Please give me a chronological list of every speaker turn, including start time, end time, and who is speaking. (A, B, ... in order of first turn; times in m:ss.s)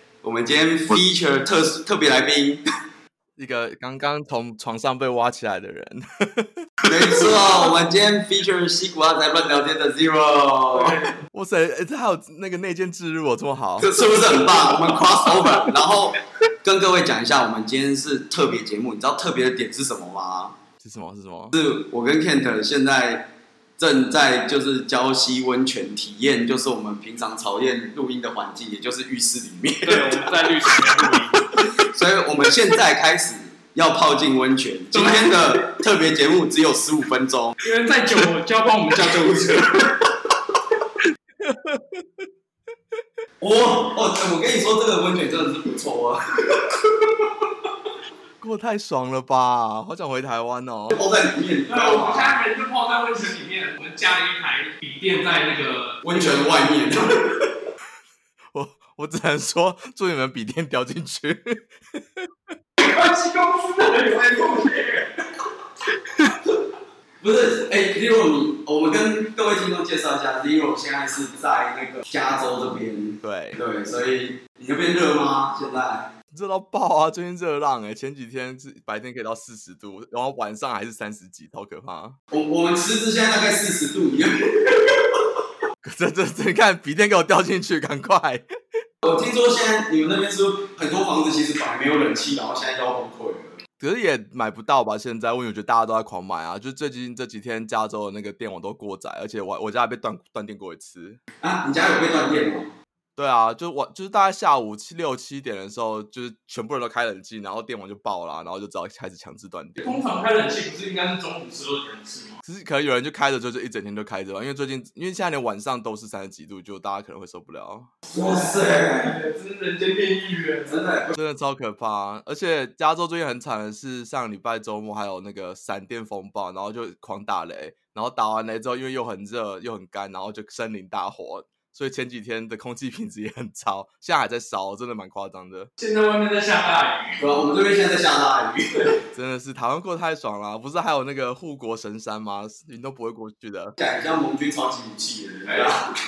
0:00.2-0:02.6 A
0:03.4-0:06.6 B
0:06.9-0:11.0 A
0:10.8-0:11.1 C
0:11.3-0:13.9 B
0:13.8-0:20.6 A
0:20.8-0:21.6 B
0:21.5-0:30.3 A
0:29.9-0:31.5 C
0:31.6-0:37.6 A
0:34.9-0:35.6 C
0:37.6-0:40.0 C
0:41.4-0:42.2 B
0:43.4-0:46.7 A
0:48.4-0:51.0 B
0:50.9-0:52.4 A
0:51.7-0:56.0 C
0:56.0-0:57.3 A
0:58.5-1:02.3 B
1:02.8-1:05.1 C
1:07.2-1:16.1 A
1:13.2-1:13.6 B
1:16.3-1:22.2 B
1:22.3-1:25.0 A
1:25.8-1:28.4 B
1:29.0-1:33.6 A
1:33.8-1:41.2 B
1:41.4-1:42.7 A
1:43.2-1:50.0 B
1:49.8-1:52.4 C
1:52.4-1:57.9 B
1:58.1-1:59.2 A
1:58.1-2:00.8 C
2:00.7-2:01.1 A
2:01.1-2:15.7 B
2:15.8-2:17.2 C
2:17.2-2:18.8 A
2:19.1-2:23.8 B
2:23.8-2:25.8 A